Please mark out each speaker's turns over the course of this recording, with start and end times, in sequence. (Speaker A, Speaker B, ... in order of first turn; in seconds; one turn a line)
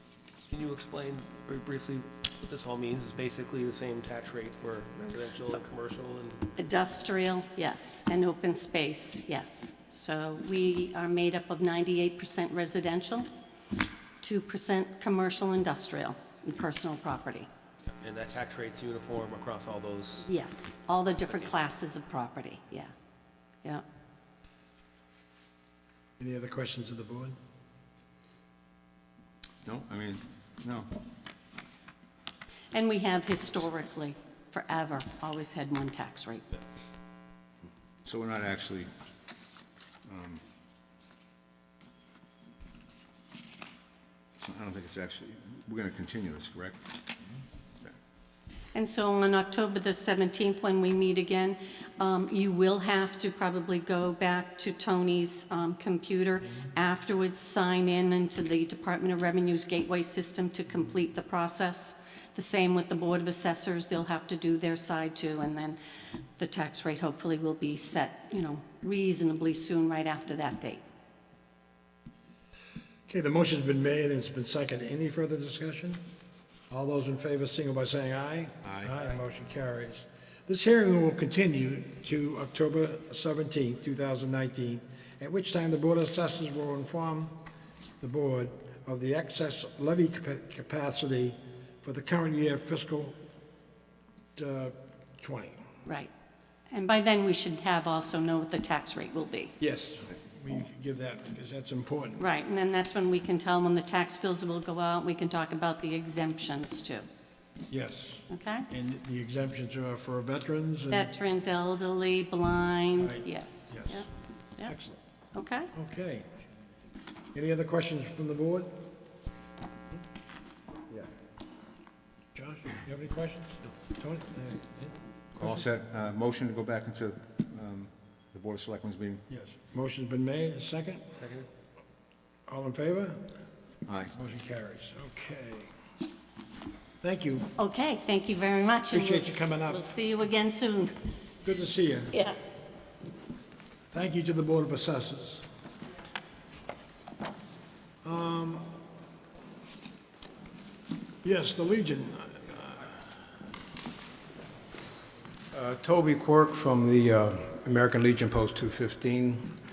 Speaker A: 0.5-6.4
Speaker B: 6.5-13.3
Speaker B: 14.2-17.5
Speaker A: 18.0-20.3
Speaker B: 20.2-22.9
Speaker C: 26.2-27.3
Speaker D: 29.6-30.9
Speaker B: 32.7-36.4
Speaker D: 38.0-38.9
Speaker D: 40.1-40.4
Speaker D: 44.4-46.7
Speaker B: 48.7-65.8
Speaker B: 66.4-70.8
Speaker C: 73.1-76.0
Speaker C: 76.7-87.3
Speaker C: 88.0-93.2
Speaker C: 94.3-95.6
Speaker B: 96.7-99.5
Speaker C: 99.6-102.3
Speaker B: 102.2-107.1
Speaker C: 107.7-111.1
Speaker B: 108.3-108.7
Speaker B: 110.9-114.1
Speaker C: 113.0-114.0
Speaker C: 114.6-115.0
Speaker B: 115.3-115.7
Speaker C: 115.7-116.2
Speaker C: 117.3-118.7
Speaker C: 122.3-125.7
Speaker D: 125.4-129.2
Speaker C: 129.3-131.1
Speaker A: 131.1-131.4
Speaker C: 132.5-133.2
Speaker C: 134.2-135.7
Speaker C: 137.0-137.5
Speaker B: 137.6-141.0
Speaker C: 138.9-139.8
Speaker C: 141.4-142.1
Speaker B: 142.1-142.4
Speaker C: 143.9-145.4
Speaker C: 148.0-148.7
Speaker C: 151.2-153.2
Speaker E: 155.5-159.5